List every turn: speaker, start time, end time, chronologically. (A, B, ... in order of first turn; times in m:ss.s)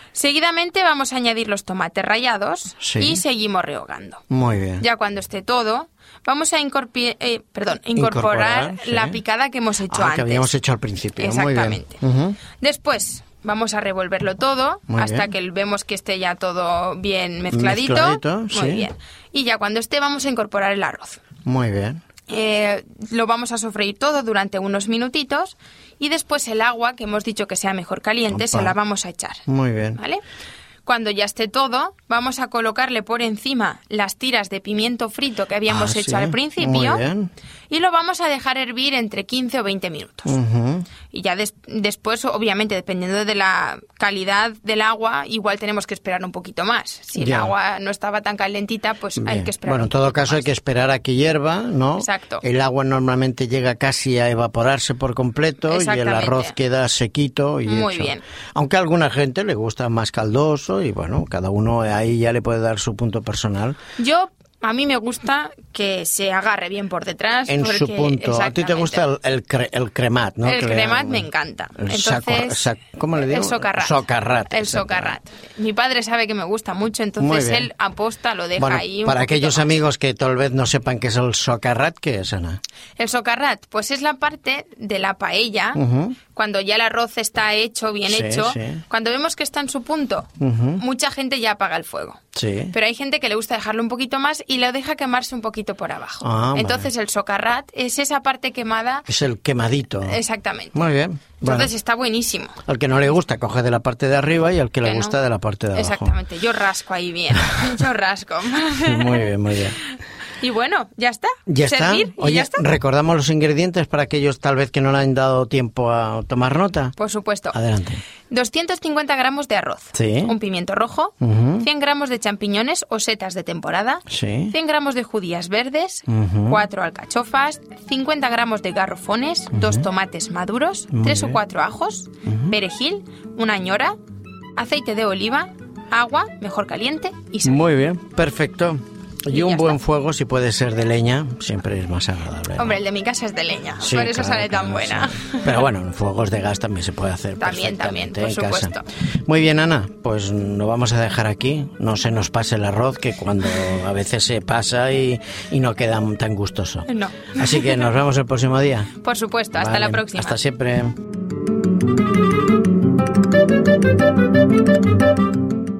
0:00.2-0:04.2 A
0:02.8-0:03.2 B
0:04.3-0:04.8 B
0:04.8-0:10.5 A
0:08.0-0:09.2 B
0:09.9-0:12.4 B
0:11.2-0:12.0 A
0:12.6-0:21.2 A
0:14.9-0:15.3 B
0:17.5-0:18.9 B
0:21.4-0:22.0 B
0:22.3-0:29.4 A
0:28.3-0:28.8 B
0:29.5-0:30.0 B
0:30.0-0:30.2 A
0:30.8-0:37.0 A
0:35.7-0:37.3 B
0:37.7-0:40.4 A
0:40.3-0:40.9 B
0:41.1-0:50.5 A
0:47.2-0:47.5 B
0:49.2-1:03.8 B
0:52.0-0:52.4 A
0:55.7-0:56.6 A
0:57.7-0:58.2 A
1:04.0-1:09.0 A
1:07.5-1:15.2 B
1:10.4-1:19.8 A
1:17.2-1:17.7 B
1:18.6-1:22.6 B
1:23.0-1:30.3 A
1:25.7-1:26.2 B
1:28.1-1:28.8 B
1:30.4-1:30.8 B
1:30.8-1:32.2 A
1:32.4-1:32.8 B
1:32.7-1:39.1 A
1:36.2-1:36.9 B
1:39.1-1:40.2 B
1:40.0-1:40.8 A
1:40.7-1:41.7 B
1:41.4-1:42.6 A
1:42.7-1:46.2 B
1:44.8-1:45.2 A
1:45.7-1:49.3 A
1:48.8-1:49.8 B
1:49.8-1:52.6 A
1:51.5-1:57.0 B
1:57.0-1:57.6 A
1:57.5-1:58.0 B
1:58.3-2:14.0 A
1:59.9-2:00.4 B
2:01.2-2:01.7 B
2:04.1-2:04.6 B
2:06.1-2:06.6 B
2:09.5-2:09.9 B
2:10.9-2:11.4 B
2:12.3-2:12.6 B
2:14.6-2:17.6 A
2:17.4-2:22.8 B
2:19.3-2:19.8 A
2:22.6-2:25.7 A
2:23.8-2:38.9 B
2:27.4-2:28.8 A
2:36.9-2:37.9 A
2:39.0-2:40.4 A
2:39.6-2:41.0 B